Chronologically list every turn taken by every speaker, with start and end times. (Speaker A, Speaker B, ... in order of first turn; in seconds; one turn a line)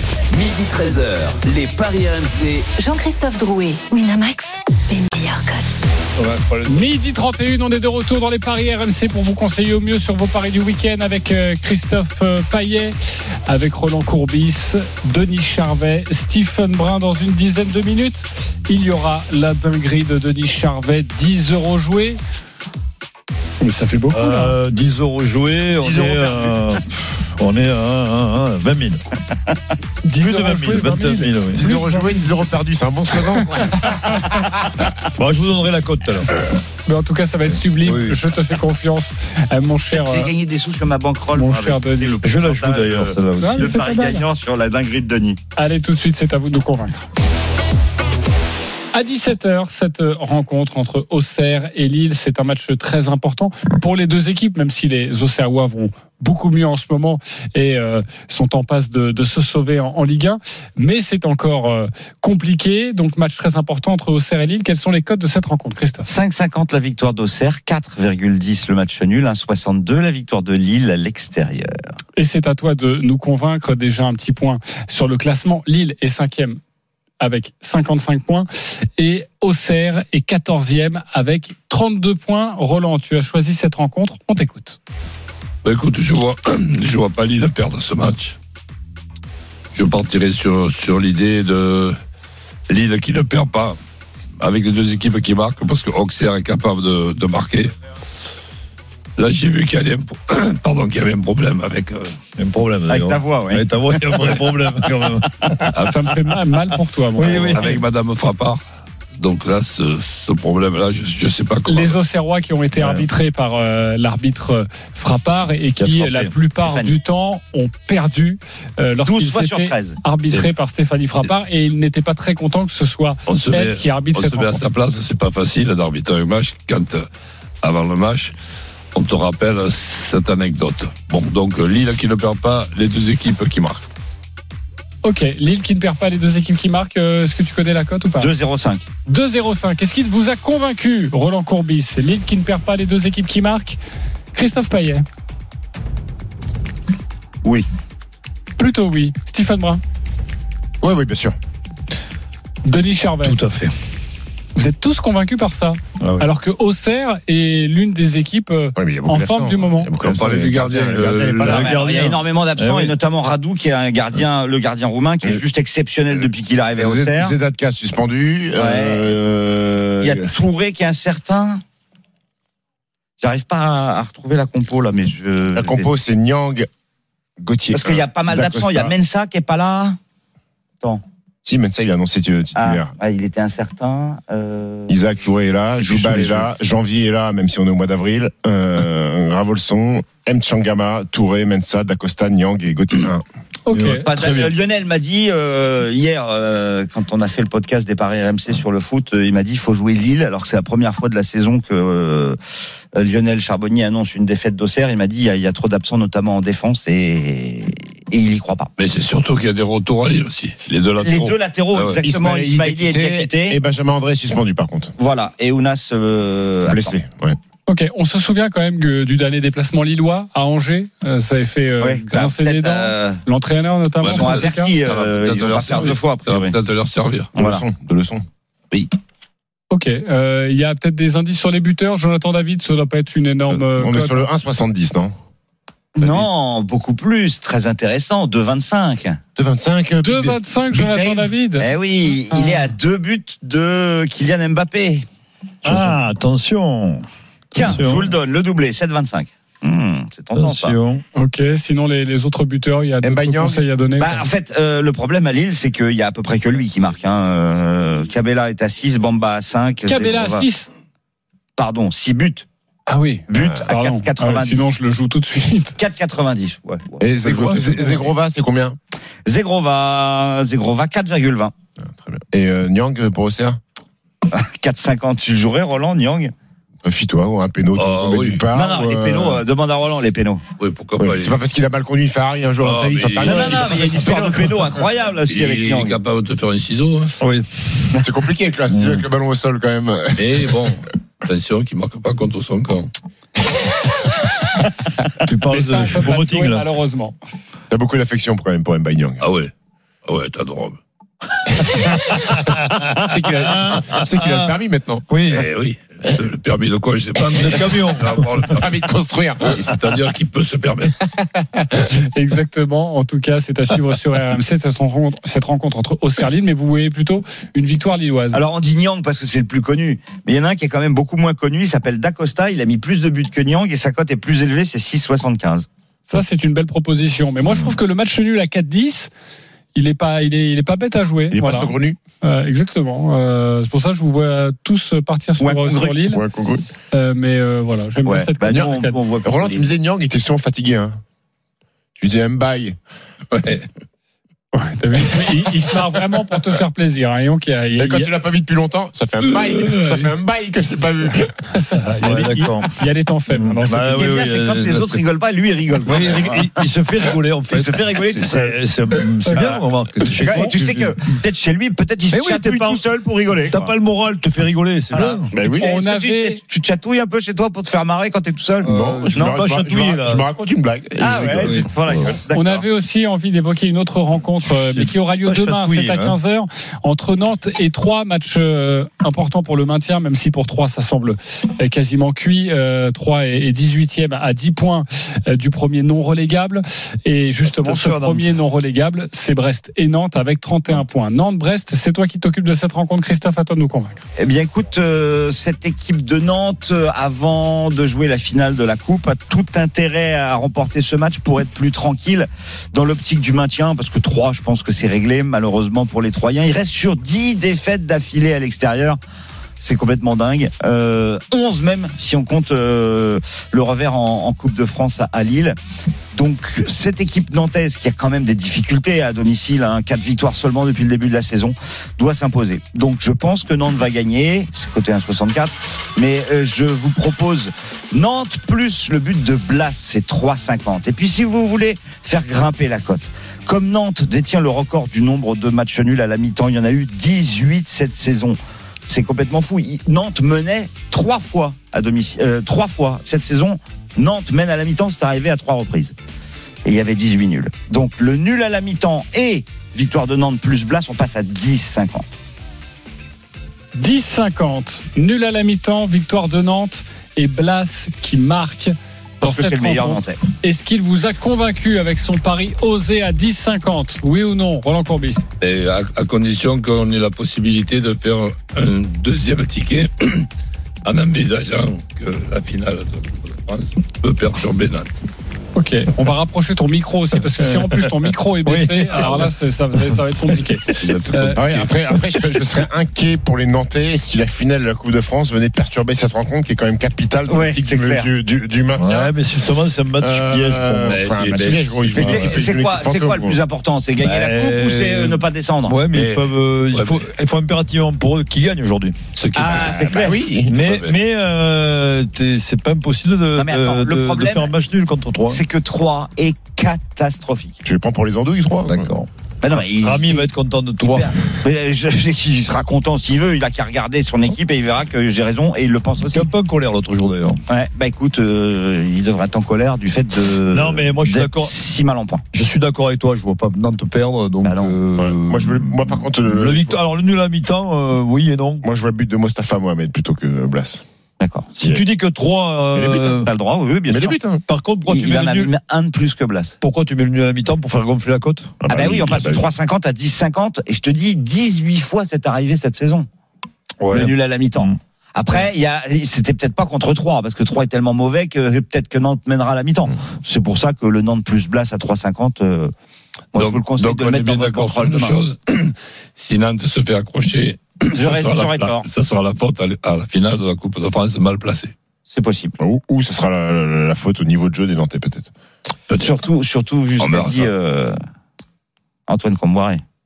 Speaker A: 0.3-2.7
Speaker B: 2.8-5.8
Speaker C: 6.2-6.9
Speaker D: 6.7-12.9
Speaker D: 13.5-22.2
Speaker D: 23.6-24.6
Speaker C: 24.1-29.0
Speaker E: 25.8-26.6
Speaker D: 30.1-32.2
Speaker C: 30.1-31.7
Speaker F: 31.5-34.8
Speaker C: 35.2-36.3
Speaker D: 36.9-40.3
Speaker C: 37.8-38.2
Speaker E: 39.9-45.4
Speaker D: 41.3-42.2
Speaker C: 42.2-43.8
Speaker D: 43.4-44.2
Speaker D: 45.6-47.1
Speaker D: 48.9-66.1
Speaker E: 66.0-71.8
Speaker D: 72.2-76.6
Speaker D: 77.2-84.8
Speaker G: 85.6-88.4
Speaker G: 89.7-92.0
Speaker G: 92.7-93.8
Speaker G: 94.4-97.7
Speaker G: 99.2-102.2
Speaker C: 102.4-105.7
Speaker E: 102.9-104.4
Speaker D: 105.8-107.7
Speaker C: 107.2-107.8
Speaker G: 107.3-108.6
Speaker G: 109.2-112.0
Speaker D: 111.7-124.6
Speaker C: 112.8-113.1
Speaker C: 115.8-116.3
Speaker E: 116.7-116.9
Speaker E: 119.1-120.0
Speaker G: 123.3-127.1
Speaker G: 127.6-128.3
Speaker G: 128.9-133.8
Speaker D: 135.0-138.3
Speaker E: 138.2-138.8
Speaker D: 139.1-143.8
Speaker D: 144.3-145.1
Speaker D: 148.6-149.8
Speaker F: 150.8-151.4
Speaker D: 152.7-153.4
Speaker C: 153.2-153.7
Speaker D: 154.6-159.9
Speaker C: 156.0-156.3
Speaker F: 158.8-161.6
Speaker G: 160.0-161.7
Speaker C: 161.4-162.9
Speaker E: 161.5-167.3
Speaker F: 166.8-170.3
Speaker E: 168.6-169.1
Speaker E: 170.0-171.6
Speaker E: 173.2-175.9
Speaker F: 175.6-176.7
Speaker F: 177.4-178.9
Speaker E: 177.7-180.0
Speaker F: 181.4-182.9
Speaker E: 182.6-185.0
Speaker F: 184.9-193.2
Speaker E: 185.9-186.4
Speaker D: 193.7-194.1
Speaker C: 193.7-194.5
Speaker E: 194.1-202.4
Speaker E: 202.9-208.7
Speaker G: 208.8-212.0
Speaker E: 211.0-213.6
Speaker F: 212.0-214.9
Speaker E: 215.0-216.9
Speaker F: 216.7-217.4
Speaker D: 217.7-224.7
Speaker E: 221.8-223.2
Speaker G: 224.0-227.3
Speaker E: 224.0-226.6
Speaker E: 227.4-227.6
Speaker F: 227.4-228.2
Speaker D: 229.7-234.3
Speaker F: 233.5-235.2
Speaker E: 236.0-239.2
Speaker F: 236.0-236.3
Speaker F: 239.4-241.3
Speaker D: 240.0-241.7
Speaker E: 241.6-245.1
Speaker D: 242.3-242.6
Speaker C: 245.6-247.0
Speaker E: 247.5-250.8
Speaker C: 247.6-248.1
Speaker C: 250.3-251.0
Speaker D: 251.2-254.3
Speaker F: 253.0-253.6
Speaker E: 254.0-260.5
Speaker D: 259.9-260.7
Speaker E: 261.6-262.5
Speaker D: 262.9-265.8
Speaker E: 263.3-264.7
Speaker F: 263.3-263.6
Speaker E: 265.8-268.0
Speaker F: 267.0-268.8
Speaker E: 269.3-271.5
Speaker F: 272.0-273.6
Speaker E: 274.3-276.3
Speaker F: 276.8-279.4
Speaker G: 277.8-278.5
Speaker E: 278.5-280.4
Speaker G: 280.6-281.4
Speaker F: 281.0-284.6
Speaker G: 282.6-283.9
Speaker E: 283.2-286.0
Speaker C: 283.8-284.4
Speaker G: 285.3-287.2
Speaker C: 287.2-287.9
Speaker F: 288.0-290.3
Speaker C: 288.7-289.0
Speaker G: 290.2-292.9
Speaker C: 295.2-296.7
Speaker D: 295.5-297.2
Speaker F: 297.7-299.2
Speaker G: 299.2-299.5
Speaker G: 300.1-300.8
Speaker F: 303.0-305.1
Speaker C: 305.1-305.5
Speaker G: 305.3-308.7
Speaker C: 307.3-308.3
Speaker F: 308.5-309.6
Speaker G: 309.5-310.9
Speaker D: 312.1-318.4
Speaker E: 318.3-325.7
Speaker D: 326.1-329.1
Speaker D: 329.8-336.2
Speaker F: 331.3-332.0
Speaker E: 335.4-336.0
Speaker F: 336.1-336.7
Speaker D: 336.9-339.0
Speaker E: 338.1-339.7
Speaker F: 338.5-338.7
Speaker F: 339.2-341.0
Speaker F: 342.0-342.8
Speaker G: 343.3-343.7
Speaker D: 344.5-348.1
Speaker F: 347.8-351.4
Speaker G: 349.2-350.1
Speaker D: 351.5-354.2
Speaker C: 352.0-352.7
Speaker C: 353.3-355.0
Speaker E: 353.9-356.5
Speaker C: 355.9-360.9
Speaker E: 357.5-358.6
Speaker D: 359.3-359.5
Speaker E: 359.3-363.7
Speaker C: 362.1-362.8
Speaker C: 363.4-365.3
Speaker E: 364.9-369.4
Speaker F: 365.3-365.7
Speaker D: 365.6-366.4
Speaker C: 368.6-370.2
Speaker F: 368.6-371.7
Speaker E: 371.0-372.6
Speaker C: 371.1-372.1
Speaker D: 372.3-394.0
Speaker C: 374.6-376.2
Speaker C: 387.5-388.3
Speaker E: 394.2-409.0
Speaker E: 409.6-415.6
Speaker E: 416.1-445.9
Speaker E: 446.6-452.1
Speaker D: 453.8-465.3
Speaker E: 459.2-460.2
Speaker G: 465.4-470.3
Speaker G: 470.8-475.0
Speaker D: 475.6-481.4
Speaker C: 477.4-477.9
Speaker C: 478.5-479.2
Speaker G: 480.8-481.8
Speaker F: 481.4-489.1
Speaker E: 487.3-488.1
Speaker C: 488.8-491.0
Speaker F: 490.0-493.4
Speaker G: 490.9-492.1
Speaker E: 491.9-495.8
Speaker C: 494.0-499.0
Speaker G: 495.9-497.1
Speaker G: 499.2-501.0
Speaker E: 499.4-500.2
Speaker F: 499.9-500.6
Speaker C: 500.4-505.4
Speaker E: 503.4-504.5
Speaker E: 505.3-507.6
Speaker F: 507.6-508.9
Speaker C: 508.7-509.1
Speaker E: 509.4-510.3
Speaker C: 509.8-511.3
Speaker E: 510.8-516.3
Speaker C: 516.1-517.4
Speaker E: 517.5-522.2
Speaker C: 520.5-521.5
Speaker C: 522.3-528.6
Speaker E: 524.4-524.8
Speaker F: 525.0-526.8
Speaker F: 528.6-530.8
Speaker E: 531.2-531.5
Speaker C: 531.5-533.3
Speaker F: 532.8-533.1
Speaker E: 532.9-534.2
Speaker F: 533.9-534.4
Speaker C: 534.5-535.5
Speaker E: 534.9-536.6
Speaker C: 536.6-538.6
Speaker F: 538.6-539.5
Speaker E: 538.7-543.1
Speaker C: 543.8-544.8
Speaker E: 543.9-552.7
Speaker E: 553.3-555.2
Speaker G: 553.4-561.7
Speaker E: 557.9-558.9
Speaker E: 562.1-562.6
Speaker F: 562.6-565.3
Speaker G: 565.9-566.2
Speaker E: 566.0-568.0
Speaker G: 567.0-567.5
Speaker E: 569.1-569.8